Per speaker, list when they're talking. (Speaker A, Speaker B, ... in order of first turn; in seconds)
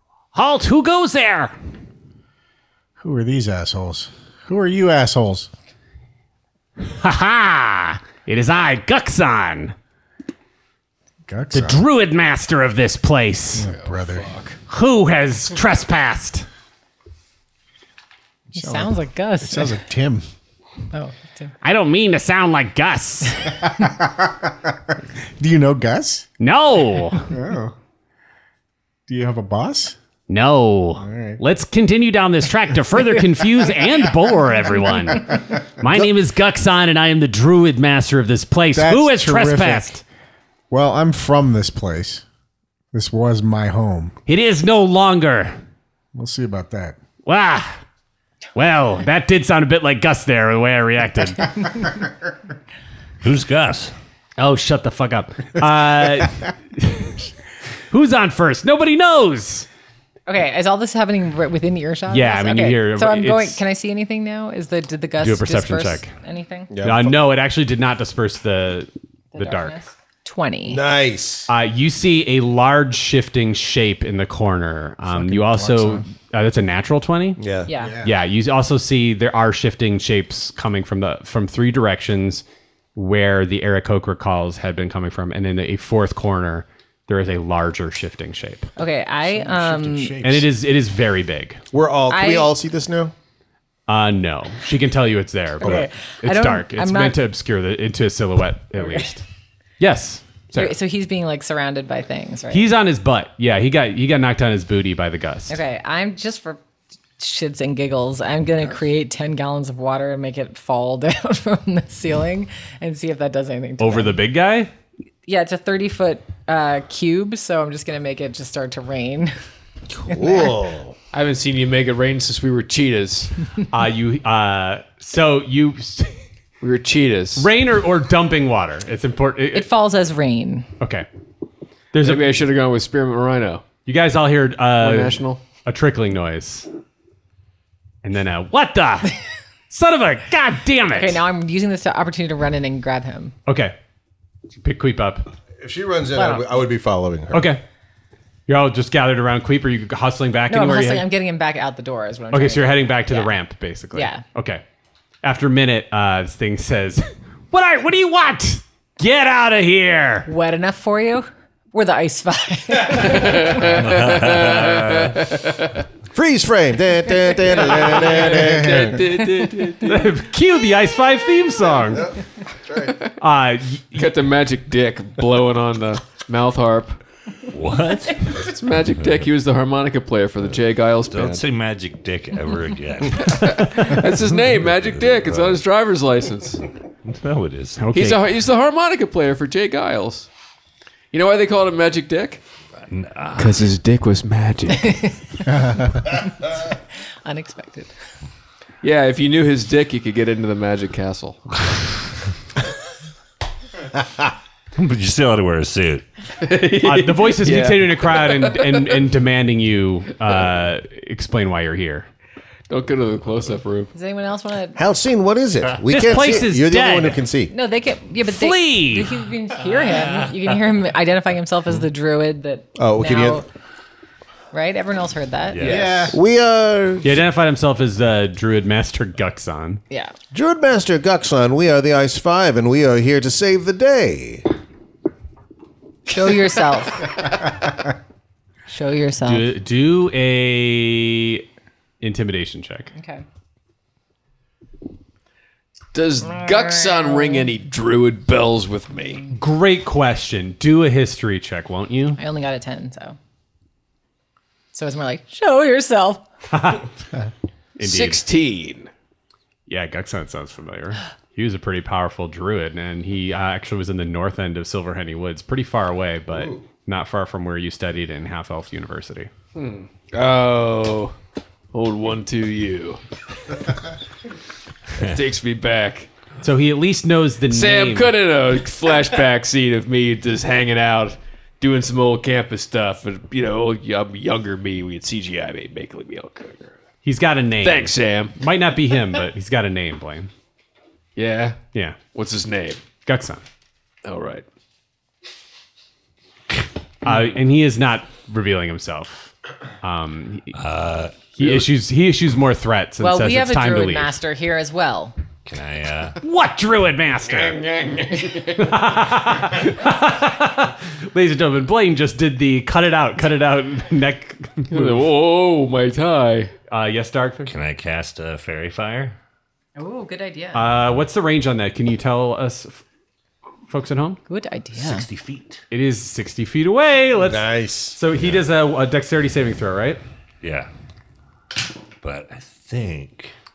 Speaker A: 0.3-1.6, 6.8-9.8, 11.5-13.7, 14.7-16.5, 21.6-23.6, 26.4-27.3, 30.3-40.0, 44.3-45.6, 47.2-47.8, 48.5-51.5, 54.4-57.3, 57.9-59.7, 62.1-63.6, 65.2-66.1, 66.8-69.8, 71.5-77.4, 78.0-82.4, 83.0-88.7, 90.2-91.6, 93.9-99.2, 99.8-100.8, 102.5-105.6, 113.8-114.7, 123.7-126.2, 127.4-129.7, 130.8-131.1, 131.9-132.3, 133.9-136.7, 138.0-139.2, 139.7-141.2, 143.5-143.8, 144.6-145.3, 147.3-147.6, 148.5-151.1, 152.3-154.6, 155.2-160.3, 169.8-172.1, 173.2-174.1, 187.8-188.2, 206.8-212.1, 215.9-217.2, 218.3-219.1, 227.0-229.8, 239.2-241.4, 242.0-242.9, 249.3-252.2, 256.5-256.9, 257.8-258.2, 259.7-269.3, 276.4-278.1, 287.1-290.3, 291.7-292.0, 293.1-293.4, 297.0-300.5, 301.4-304.2, 306.2-307.6, 308.6-315.0, 316.7-317.5, 320.5-322.8, 323.7-324.2, 325.7-330.0
Speaker B: 3.0-5.5, 11.3-11.8, 13.5-14.3, 18.5-20.3, 23.6-26.3, 27.2-27.8, 29.1-30.0, 31.0-31.4, 35.3-35.5, 38.7-40.0, 40.7-42.2, 42.9-44.1, 46.1-47.0, 75.1-76.1, 77.8-78.2, 89.2-90.5, 195.5-195.9, 225.6-226.2
Speaker C: 13.6-14.6, 121.1-123.3, 126.6-127.5, 132.0-133.7, 134.8-135.4, 163.1-165.8, 167.5-170.1, 173.9-177.0, 178.3-181.4, 183.2-186.6, 187.9-190.3, 191.1-192.4, 193.4-195.2, 198.8-201.5, 206.4-208.9, 212.7-213.9, 225.6-226.1, 245.9-249.3, 257.8-258.9, 269.6-271.2, 271.7-273.6, 275.0-276.1, 277.5-286.8, 287.6-288.4, 291.2-291.6, 292.1-292.9, 294.1-294.4, 307.3-308.8, 314.7-316.5
Speaker D: 18.6-19.8, 20.9-21.5, 60.3-66.7, 69.3-70.8, 77.7-78.0, 88.8-90.2, 92.1-92.5, 95.6-97.2, 100.5-102.7, 105.5-106.6, 107.2-114.2, 115.3-119.3, 120.1-120.5, 129.5-130.7, 140.9-143.3, 146.2-146.4, 150.5-153.3, 153.9-154.2, 160.3-163.6, 194.9-195.4, 197.2-197.9, 213.9-214.8, 217.5-223.5, 224.5-225.9, 236.1-237.2, 238.7-239.5, 242.9-243.2, 246.3-247.5, 252.2-253.2, 254.7-256.2, 303.0-305.1, 319.8-320.7, 324.3-325.1
Speaker E: 53.2-53.9, 163.6-165.2, 177.5-179.3, 181.1-185.6, 187.1-187.9, 192.9-193.7, 204.8-206.1, 225.5-226.0, 300.5-301.6, 305.5-306.2, 317.4-319.2, 324.8-325.6, 328.2-328.4, 330.4-330.7, 332.0-333.3
Speaker F: 66.7-67.2, 70.7-71.5, 77.4-77.7, 91.7-93.1, 119.9-121.0, 145.6-147.6, 166.1-169.0, 172.6-173.0, 214.8-217.5, 222.8-223.4, 226.1-227.2, 230.3-234.4, 266.3-266.6, 327.2-328.0